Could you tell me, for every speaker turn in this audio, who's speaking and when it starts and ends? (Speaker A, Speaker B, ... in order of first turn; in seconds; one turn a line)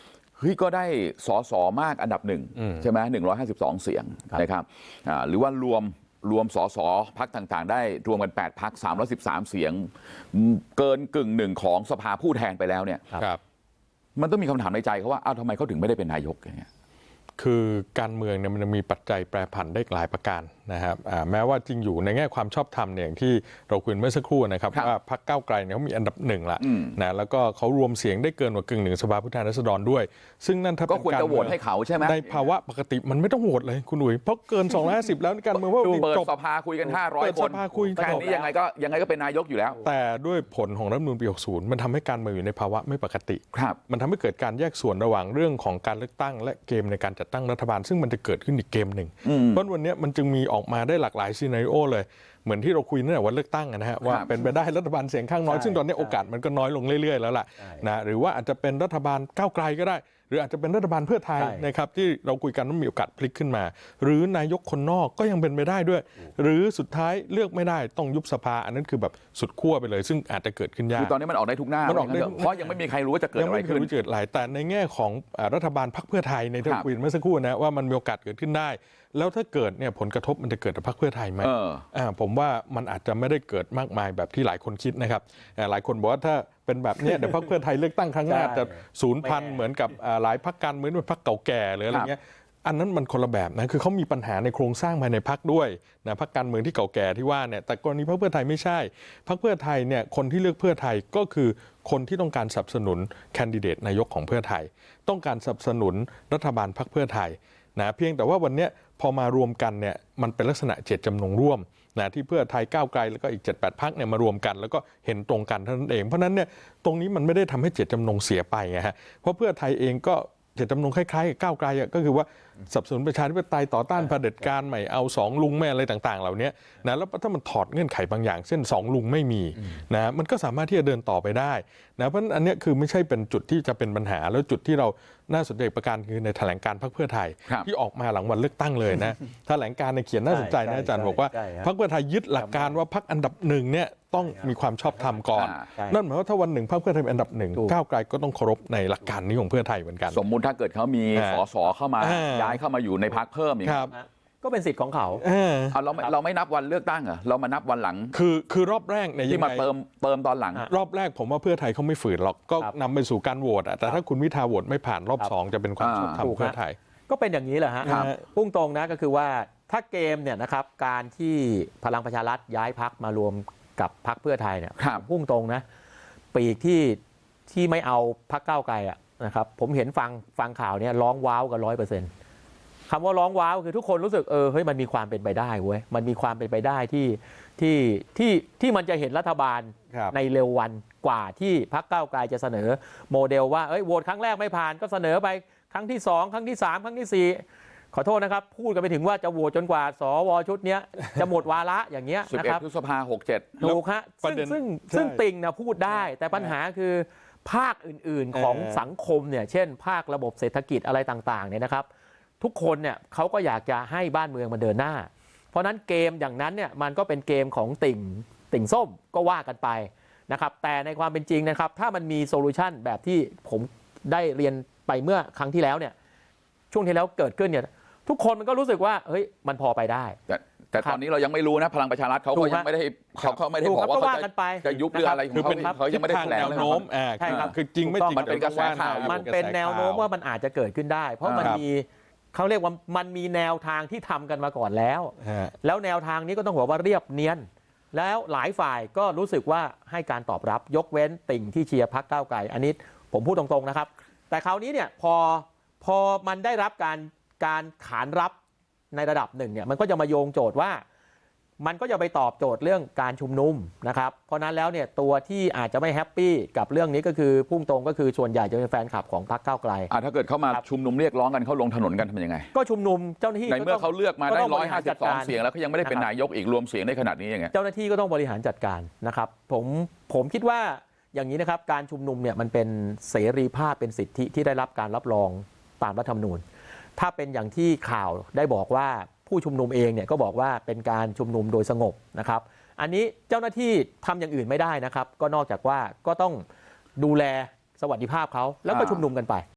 Speaker A: 0.4-13.2
Speaker B: 2.6-2.8
Speaker A: 14.2-16.7
Speaker B: 17.4-36.3
Speaker A: 26.6-27.0
Speaker A: 30.9-32.5
Speaker A: 35.5-39.8
Speaker B: 36.9-38.3
Speaker C: 38.0-38.5
Speaker B: 39.8-71.1
Speaker A: 49.2-49.6
Speaker A: 54.0-54.3
Speaker C: 55.5-56.2
Speaker C: 61.4-61.7
Speaker A: 70.9-73.9
Speaker B: 71.8-72.8
Speaker B: 73.3-150.2
Speaker A: 81.4-81.8
Speaker C: 88.2-89.6
Speaker C: 140.3-141.7
Speaker C: 142.3-142.8
Speaker C: 144.2-146.0
Speaker A: 145.3-145.7
Speaker A: 150.1-153.9
Speaker B: 151.1-151.4
Speaker B: 152.0-152.6
Speaker B: 153.6-153.9
Speaker C: 153.9-155.2
Speaker B: 155.2-155.8
Speaker A: 155.7-158.1
Speaker B: 158.1-159.7
Speaker A: 159.3-160.7
Speaker B: 160.7-166.8
Speaker A: 165.8-166.2
Speaker C: 166.2-166.6
Speaker C: 167.1-175.6
Speaker B: 167.8-168.2
Speaker A: 167.8-168.1
Speaker A: 174.8-175.0
Speaker C: 176.3-182.1
Speaker C: 182.9-202.6
Speaker A: 202.2-203.6
Speaker C: 203.6-211.9
Speaker B: 203.6-205.2
Speaker B: 208.3-208.9
Speaker C: 212.4-225.9
Speaker C: 226.7-230.2
Speaker A: 230.3-237.5
Speaker C: 232.3-232.7
Speaker C: 233.4-258.3
Speaker B: 235.3-240.1
Speaker A: 238.1-239.2
Speaker A: 241.2-241.6
Speaker B: 245.2-245.5
Speaker C: 258.9-260.8
Speaker C: 261.6-269.9
Speaker A: 269.9-272.5
Speaker C: 272.5-276.1
Speaker A: 273.5-277.5
Speaker C: 277.5-286.4
Speaker C: 287.0-296.4
Speaker C: 297.0-299.4
Speaker A: 298.7-299.0